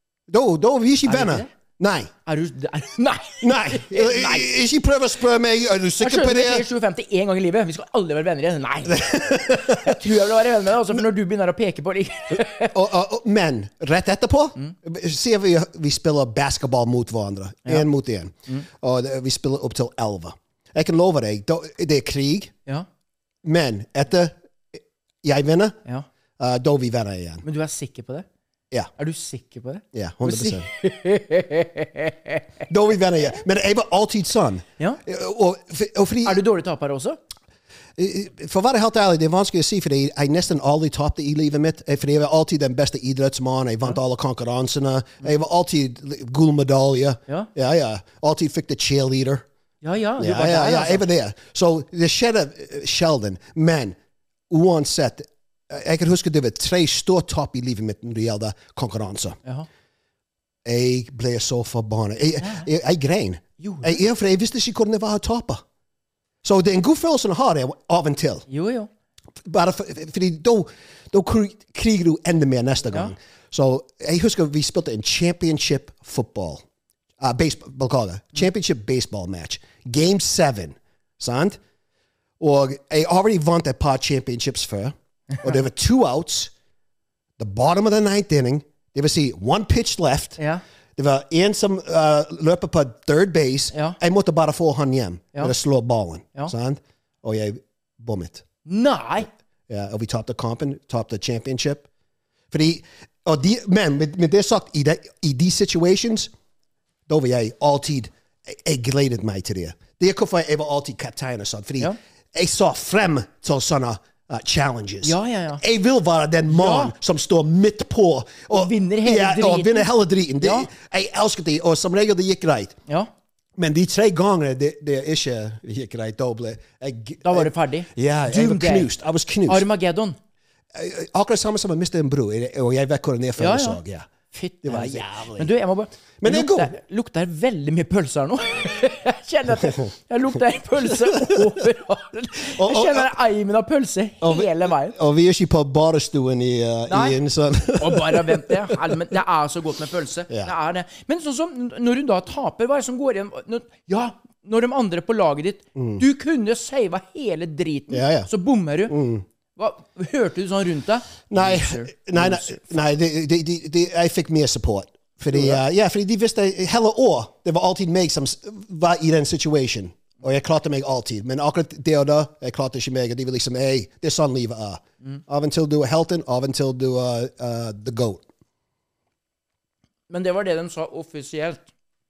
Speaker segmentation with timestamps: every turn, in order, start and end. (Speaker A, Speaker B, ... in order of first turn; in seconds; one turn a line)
Speaker A: 0.3-2.1
Speaker B: 1.1-1.5
Speaker B: 2.2-4.5
Speaker A: 3.4-6.7
Speaker B: 6.0-12.7
Speaker A: 8.9-10.0
Speaker A: 12.6-22.5
Speaker A: 23.4-25.8
Speaker A: 26.4-27.4
Speaker B: 27.4-28.2
Speaker B: 29.0-32.5
Speaker A: 29.9-30.7
Speaker A: 32.7-36.4
Speaker B: 36.2-37.2
Speaker A: 38.0-49.5
Speaker B: 49.8-51.0
Speaker A: 50.2-54.0
Speaker A: 54.5-59.4
Speaker A: 60.6-65.6
Speaker B: 62.4-62.6
Speaker B: 63.6-64.0
Speaker A: 66.4-68.5
Speaker B: 68.5-68.9
Speaker A: 69.4-76.6
Speaker A: 77.2-81.6
Speaker A: 82.4-86.5
Speaker B: 85.3-85.6
Speaker A: 87.4-90.4
Speaker B: 90.4-90.6
Speaker A: 91.0-98.4
Speaker B: 93.7-94.0
Speaker B: 98.7-99.3
Speaker A: 99.7-101.9
Speaker A: 102.5-106.3
Speaker A: 107.1-122.8
Speaker B: 115.0-115.6
Speaker B: 116.5-116.9
Speaker B: 118.5-120.7
Speaker A: 123.6-129.7
Speaker B: 127.2-128.9
Speaker B: 129.5-130.2
Speaker A: 130.7-134.1
Speaker B: 133.4-133.8
Speaker B: 134.3-144.9
Speaker A: 134.6-135.5
Speaker A: 136.2-136.7
Speaker A: 141.0-141.4
Speaker A: 142.5-143.1
Speaker A: 144.2-148.8
Speaker B: 146.9-147.2
Speaker B: 147.8-159.0
Speaker A: 150.3-150.5
Speaker A: 155.7-156.0
Speaker A: 157.9-158.3
Speaker A: 158.9-159.2
Speaker B: 159.6-162.7
Speaker A: 161.3-178.2
Speaker B: 165.3-165.6
Speaker B: 180.1-181.6